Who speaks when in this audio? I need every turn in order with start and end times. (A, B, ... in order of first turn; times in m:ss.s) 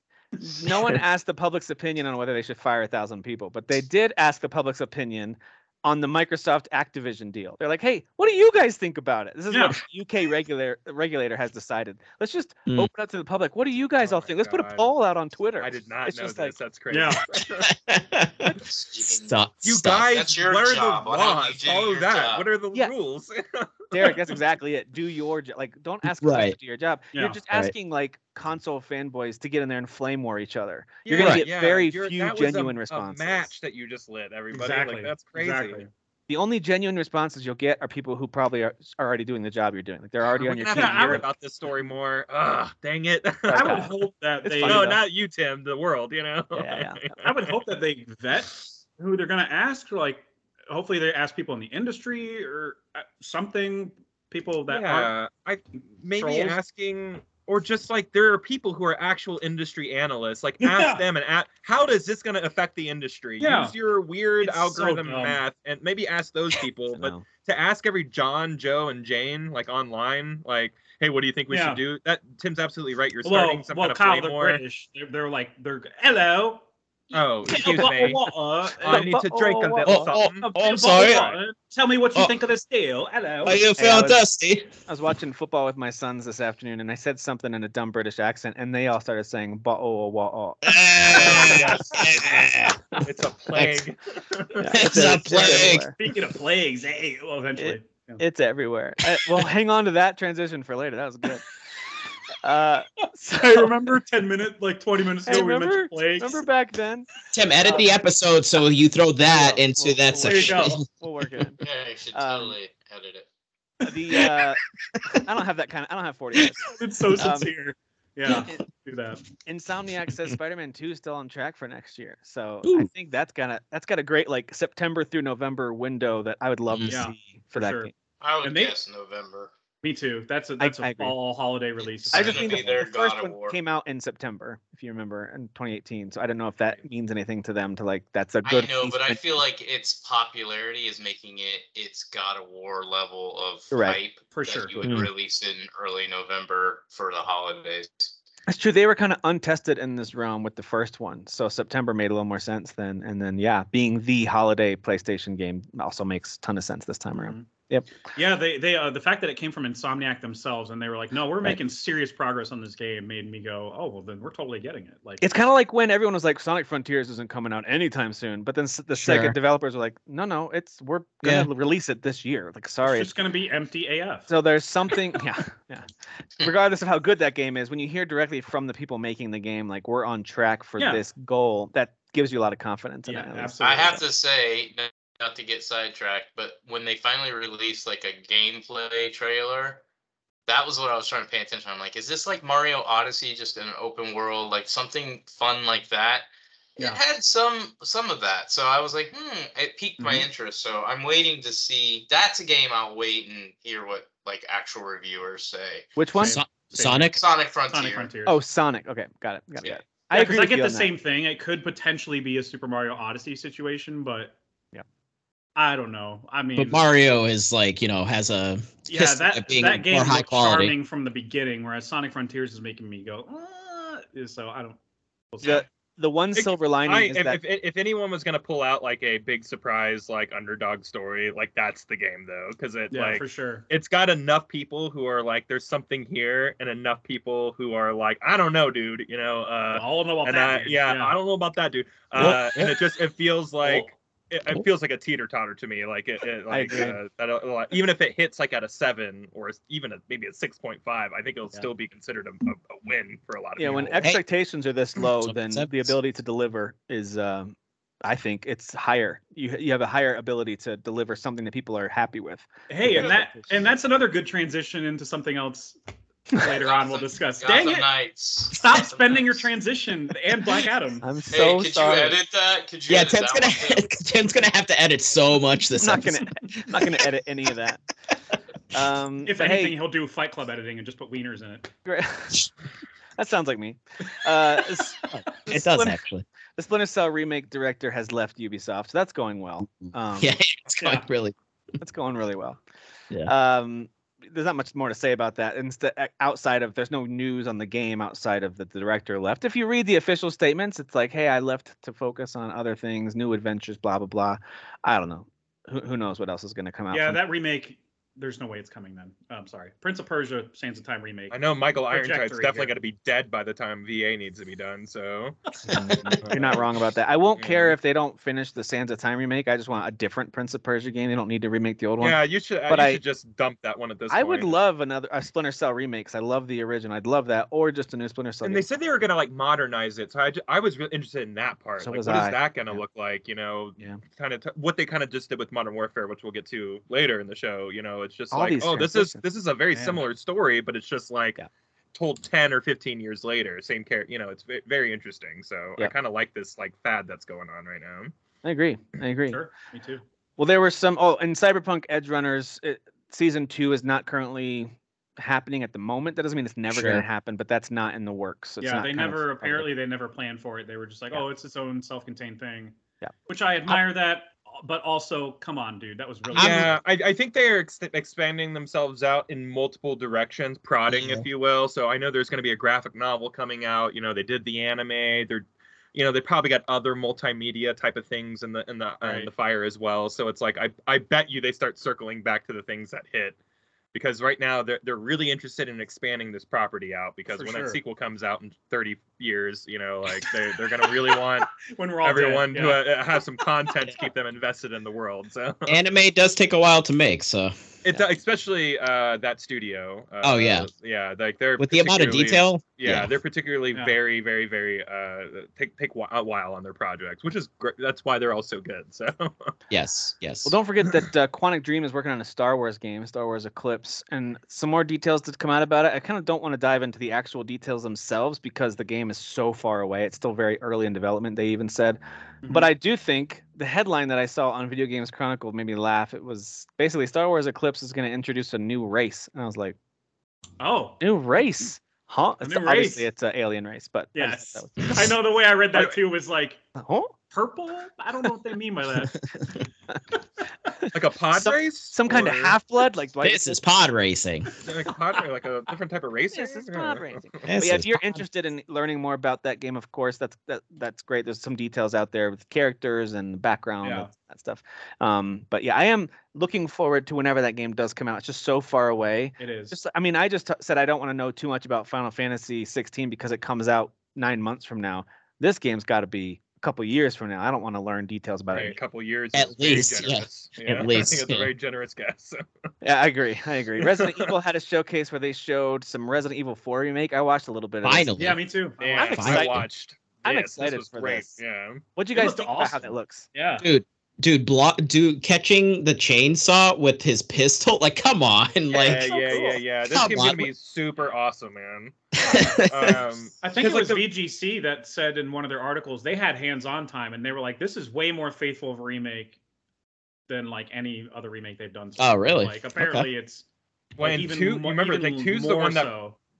0:00.4-0:16.6 A
0:09.5-0:09.8 B
0:14.0-0:14.9 C
0:15.6-0:17.7 C
0:16.9-0:17.2 B
0:17.4-0:20.1 D
0:18.6-0:19.4 E
0:19.6-0:24.4 C
0:20.1-0:22.5 E
0:23.9-0:33.5 A
0:26.1-0:26.6 D
0:27.1-0:27.4 B
0:31.0-0:35.8 C
0:31.1-0:31.4 D
0:34.5-0:35.9 B
0:36.3-0:41.2 A
0:40.3-0:43.9 C
0:40.7-0:41.2 B
0:43.5-0:44.9 B
0:43.5-0:45.0 A
0:44.6-0:47.5 C
0:46.5-0:47.0 A
0:47.2-0:55.1 B
0:54.7-1:14.6 C
0:56.2-0:56.6 B
1:00.6-1:01.0 B
1:03.4-1:03.8 B
1:04.4-1:05.4 B
1:06.9-1:07.2 A
1:11.5-1:11.8 B
1:13.2-1:16.6 B
1:17.1-1:20.4 C
1:17.5-1:19.2 B
1:17.6-1:18.1 A
1:18.8-1:20.2 A
1:19.8-1:21.3 D
1:20.4-1:23.6 B
1:21.0-1:21.4 C
1:23.4-1:24.7 D
1:23.8-1:24.2 A
1:24.8-1:32.4 A
1:30.6-1:33.8 D
1:31.1-1:32.4 C
1:33.0-1:34.8 C
1:34.6-1:36.0 A
1:34.7-1:35.9 D
1:35.3-1:38.2 B
1:37.6-1:41.5 A
1:42.4-1:43.7 A
1:43.3-1:46.4 B
1:45.2-1:47.1 A
1:47.3-1:50.8 D
1:47.6-1:48.0 A
1:49.2-1:51.6 A
1:50.2-1:50.8 B
1:51.6-1:53.2 E
1:52.1-1:52.6 A
1:53.8-1:57.5 A
1:54.9-1:55.2 D
1:56.7-1:59.2 B
1:59.4-2:07.9 A
2:02.6-2:02.9 D
2:06.7-2:07.0 D
2:06.9-2:07.9 B
2:08.2-2:09.5 E
2:08.4-2:08.8 B
2:09.8-2:12.8 B
2:10.6-2:11.2 A
2:12.1-2:13.6 E
2:12.1-2:19.2 A
2:18.4-2:28.1 E
2:23.7-2:24.0 A
2:24.3-2:25.0 B
2:28.5-2:37.9 A
2:37.1-2:37.5 B
2:38.1-2:45.2 B
2:45.2-2:53.1 A
2:49.0-2:49.4 D
2:51.2-2:51.5 D
2:52.8-2:54.3 B
2:54.3-2:55.8 A
2:56.4-3:03.6 A
3:00.8-3:01.0 B
3:03.0-3:04.0 B
3:03.6-3:09.8 E
3:10.4-3:25.9 E
3:20.0-3:20.3 B
3:26.0-3:26.4 A
3:26.1-3:28.4 B
3:26.3-3:27.2 D
3:27.1-3:28.1 E
3:28.2-3:30.9 A
3:29.6-3:29.9 E
3:30.1-3:34.4 B
3:35.6-3:36.8 B
3:36.6-3:40.7 D
3:38.9-3:44.8 B
3:45.3-3:45.6 B
3:45.4-3:47.4 A
3:46.3-4:14.0 C
3:52.9-3:53.6 B
3:59.7-4:01.2 B
4:02.2-4:02.7 D
4:06.5-4:07.0 A
4:13.6-4:23.7 A
4:15.0-4:15.9 D
4:22.7-4:25.8 B
4:26.3-4:27.9 B
4:26.6-4:29.5 E
4:28.5-4:31.1 B
4:31.0-4:32.2 A
4:31.3-4:33.9 E
4:32.9-4:36.7 D
4:35.8-4:37.8 A
4:38.7-4:39.8 A
4:39.2-4:41.7 B
4:41.8-4:42.5 A
4:43.2-4:46.0 A
4:45.1-4:46.2 D
4:46.6-4:50.4 A
4:49.8-4:51.3 D
4:50.8-4:51.1 B
4:51.8-4:52.6 A
4:53.2-5:07.2 A
5:06.9-5:12.7 B
5:11.3-5:15.4 C
5:15.7-5:16.6 B
5:15.7-5:23.0 A
5:15.9-5:16.6 C
5:17.4-5:17.8 C
5:22.0-5:24.6 C
5:24.1-5:28.7 A
5:28.4-5:41.4 C
5:31.8-5:32.8 A
5:38.3-5:39.2 A
5:39.7-5:40.0 B
5:41.9-5:48.1 C
5:48.4-5:49.4 A
5:49.3-5:50.0 B
5:50.4-5:59.7 A
5:56.7-5:57.0 D
5:58.6-6:02.8 B
6:03.3-6:06.8 B
6:06.3-6:06.7 D
6:06.3-6:23.4 C
6:10.9-6:11.2 D
6:19.0-6:19.3 B
6:23.9-6:35.8 C
6:27.3-6:27.8 B
6:30.9-6:31.2 B
6:31.7-6:32.9 B
6:35.7-6:38.0 D
6:37.8-6:49.5 C
6:40.2-6:40.7 D
6:41.6-6:43.1 D
6:49.7-6:50.6 D
6:50.4-7:09.8 A
7:10.6-7:11.0 B
7:11.0-7:15.2 A
7:12.4-7:13.0 B
7:14.1-7:16.6 B
7:16.7-7:17.1 A
7:17.3-7:19.3 B
7:20.7-7:23.6 A
7:20.9-7:22.6 C
7:23.2-7:24.5 D
7:24.6-7:27.4 C
7:26.3-7:48.8 A
7:27.4-7:28.2 D
7:33.8-7:34.1 B
7:39.4-7:39.8 B
7:48.5-7:52.4 C
7:49.3-7:51.5 D
7:52.8-7:58.1 A
7:53.8-7:54.3 C
7:57.8-7:58.4 D
7:58.2-7:59.2 B
7:58.8-8:01.8 C
7:59.0-7:59.6 A
7:59.0-7:59.6 D
8:00.2-8:01.4 A
8:02.0-8:03.3 A
8:02.1-8:03.6 B
8:03.6-8:09.1 D
8:08.7-8:12.0 C
8:09.1-8:09.6 A
8:09.9-8:10.5 D
8:12.2-8:13.0 D
8:12.5-8:14.1 C
8:13.4-8:19.4 B
8:20.3-8:23.4 B
8:22.0-8:23.1 D
8:24.0-8:25.9 C
8:24.0-8:26.2 B